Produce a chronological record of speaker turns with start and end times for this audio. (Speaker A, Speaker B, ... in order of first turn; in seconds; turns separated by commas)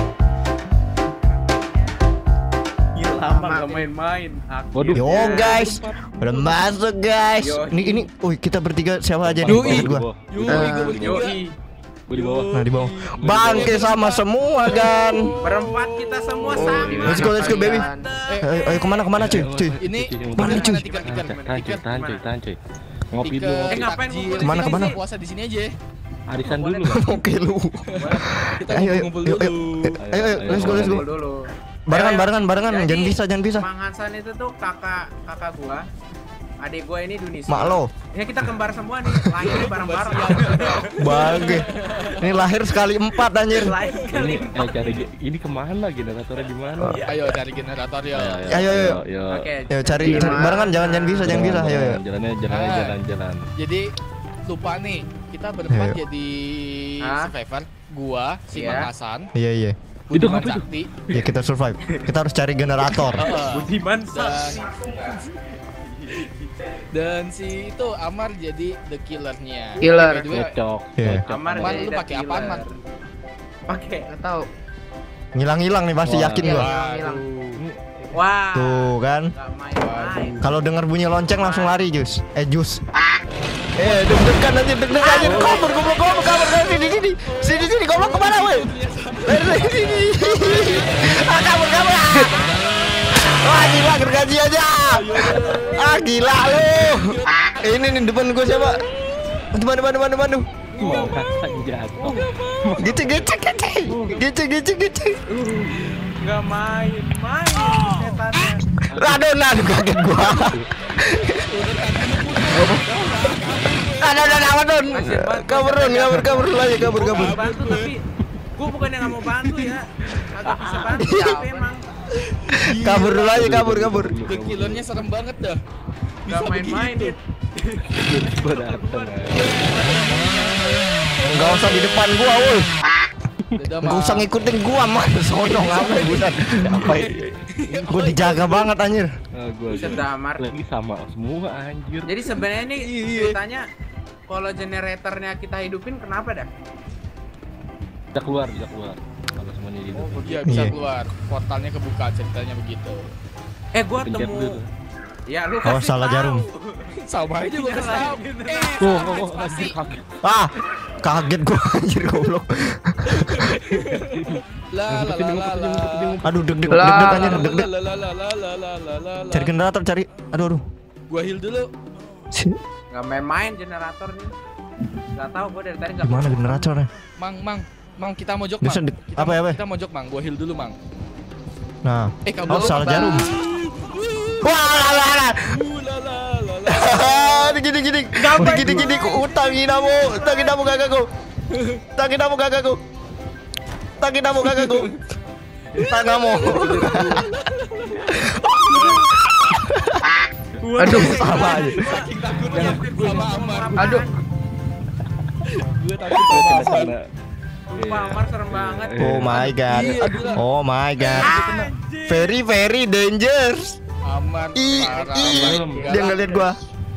Speaker A: 2.9-5.8, Speaker B: 3.1-3.9, Speaker C: 4.7-6.6, Speaker D: 4.9-10.1, Speaker A: 7.4-8.1, Speaker C: 9.2-11.3, Speaker A: 9.5-9.8, Speaker E: 9.5-11.4, Speaker B: 10.5-11.0, Speaker A: 10.9-11.6, Speaker C: 12.1-13.8, Speaker E: 12.1-17.3, Speaker D: 12.5-15.3, Speaker A: 15.4-19.0, Speaker C: 16.4-17.4, Speaker B: 16.6-18.2, Speaker D: 17.0-17.9, Speaker E: 18.2-19.0, Speaker D: 18.4-19.8, Speaker C: 19.1-22.6, Speaker E: 19.8-21.8, Speaker D: 20.4-20.7, Speaker A: 20.4-22.2, Speaker C: 23.1-23.9, Speaker E: 23.2-25.7, Speaker A: 23.7-25.0, Speaker D: 24.4-24.9, Speaker C: 26.3-27.1, Speaker A: 26.4-27.1, Speaker D: 26.9-31.1, Speaker A: 27.9-28.3, Speaker E: 27.9-30.0, Speaker C: 30.0-31.0, Speaker A: 30.5-35.8, Speaker D: 31.9-33.6, Speaker A: 36.6-42.5, Speaker D: 37.5-37.9, Speaker D: 39.1-39.5, Speaker E: 39.4-42.4, Speaker D: 41.0-43.8, Speaker A: 43.5-45.1, Speaker E: 43.9-44.4, Speaker C: 44.1-47.0, Speaker A: 46.8-47.1, Speaker E: 47.0-48.5, Speaker C: 48.1-50.6, Speaker D: 48.5-49.0, Speaker A: 49.3-51.4, Speaker D: 49.7-52.0, Speaker B: 50.2-50.6, Speaker C: 51.2-53.5, Speaker E: 52.5-53.0, Speaker E: 53.6-53.9, Speaker E: 54.5-59.3, Speaker D: 55.7-56.0, Speaker A: 57.0-57.3, Speaker A: 58.5-58.9, Speaker D: 59.3-59.7, Speaker E: 60.1-60.9, Speaker C: 60.1-61.3, Speaker D: 61.1-63.3, Speaker E: 63.1-64.7, Speaker A: 63.2-65.2, Speaker A: 65.7-66.5, Speaker E: 66.9-70.5, Speaker B: 69.8-70.4, Speaker C: 70.3-71.7, Speaker D: 71.0-71.2, Speaker A: 71.2-72.7, Speaker E: 71.5-72.6, Speaker A: 73.7-74.1, Speaker B: 74.0-74.5, Speaker D: 75.3-76.7, Speaker C: 76.0-76.6, Speaker E: 76.4-77.6, Speaker B: 76.4-77.2, Speaker C: 77.6-78.1, Speaker A: 78.1-80.5, Speaker D: 78.5-79.3, Speaker E: 79.8-80.3, Speaker D: 80.4-82.8, Speaker A: 81.4-81.8, Speaker D: 83.8-88.7, Speaker E: 83.8-84.3, Speaker A: 85.0-85.9, Speaker C: 85.2-85.7, Speaker E: 85.2-93.4, Speaker D: 89.2-92.5, Speaker C: 89.4-90.1, Speaker D: 93.1-98.8, Speaker E: 94.8-99.5, Speaker A: 95.6-95.9, Speaker D: 99.5-100.5, Speaker A: 100.7-101.2, Speaker C: 100.8-103.3, Speaker E: 100.8-101.4, Speaker E: 102.0-103.3, Speaker D: 102.8-105.2, Speaker A: 103.8-104.2, Speaker A: 105.3-108.6, Speaker C: 108.9-109.2, Speaker D: 108.9-111.4, Speaker C: 110.3-110.7, Speaker E: 111.3-114.6, Speaker D: 112.5-113.3, Speaker D: 114.0-117.4, Speaker A: 114.9-118.0, Speaker E: 116.8-117.9, Speaker A: 118.5-121.8, Speaker C: 120.2-120.8, Speaker B: 120.5-121.7, Speaker D: 120.9-121.3, Speaker E: 122.1-123.4, Speaker D: 122.7-124.2, Speaker C: 123.2-125.0, Speaker E: 124.2-125.6, Speaker E: 126.2-127.2, Speaker A: 126.3-130.8, Speaker C: 127.8-129.8, Speaker E: 129.3-130.7, Speaker D: 131.2-132.7, Speaker E: 133.5-134.3, Speaker D: 133.8-137.1, Speaker C: 135.8-137.4, Speaker E: 135.8-136.2, Speaker E: 136.8-138.7, Speaker D: 137.8-139.1, Speaker C: 139.3-142.4, Speaker A: 139.7-140.5, Speaker A: 142.0-143.6, Speaker E: 142.7-143.4, Speaker A: 144.3-146.5, Speaker C: 148.1-150.6, Speaker A: 149.9-150.5, Speaker E: 150.2-153.1, Speaker D: 150.5-150.8, Speaker A: 153.7-154.6, Speaker C: 154.0-154.7, Speaker A: 155.3-159.7, Speaker D: 155.6-156.5, Speaker E: 157.0-159.8, Speaker C: 158.8-160.2, Speaker D: 160.2-163.5, Speaker E: 163.1-166.2, Speaker C: 163.7-167.3, Speaker D: 166.2-167.7, Speaker B: 166.7-167.5, Speaker E: 166.9-169.5, Speaker D: 169.3-170.6, Speaker E: 171.1-171.7, Speaker D: 172.3-172.6, Speaker A: 172.9-174.3, Speaker A: 175.1-176.7, Speaker D: 176.0-176.9, Speaker E: 177.2-180.8, Speaker D: 178.6-179.6, Speaker D: 181.8-183.3, Speaker E: 182.2-187.6, Speaker A: 182.5-183.0, Speaker B: 182.9-183.2, Speaker D: 184.4-185.6, Speaker D: 186.7-191.1, Speaker A: 188.2-190.8, Speaker C: 188.4-189.0, Speaker E: 191.5-191.8, Speaker D: 191.9-192.8, Speaker D: 194.0-194.9, Speaker E: 194.4-195.0, Speaker E: 195.7-199.1, Speaker D: 195.8-197.2, Speaker A: 196.6-197.2, Speaker D: 198.9-200.1, Speaker A: 200.6-204.2, Speaker B: 200.8-201.2, Speaker D: 200.8-201.9, Speaker E: 200.9-204.0, Speaker B: 203.8-204.1, Speaker E: 205.4-206.9, Speaker C: 206.1-207.1, Speaker A: 207.7-209.0, Speaker C: 207.7-210.4, Speaker D: 209.0-211.4, Speaker E: 209.3-210.4, Speaker E: 211.0-211.6, Speaker A: 211.1-212.4, Speaker C: 211.4-211.6, Speaker D: 212.1-213.8, Speaker E: 214.0-216.5, Speaker D: 214.5-216.6, Speaker A: 214.8-215.8, Speaker C: 215.2-216.0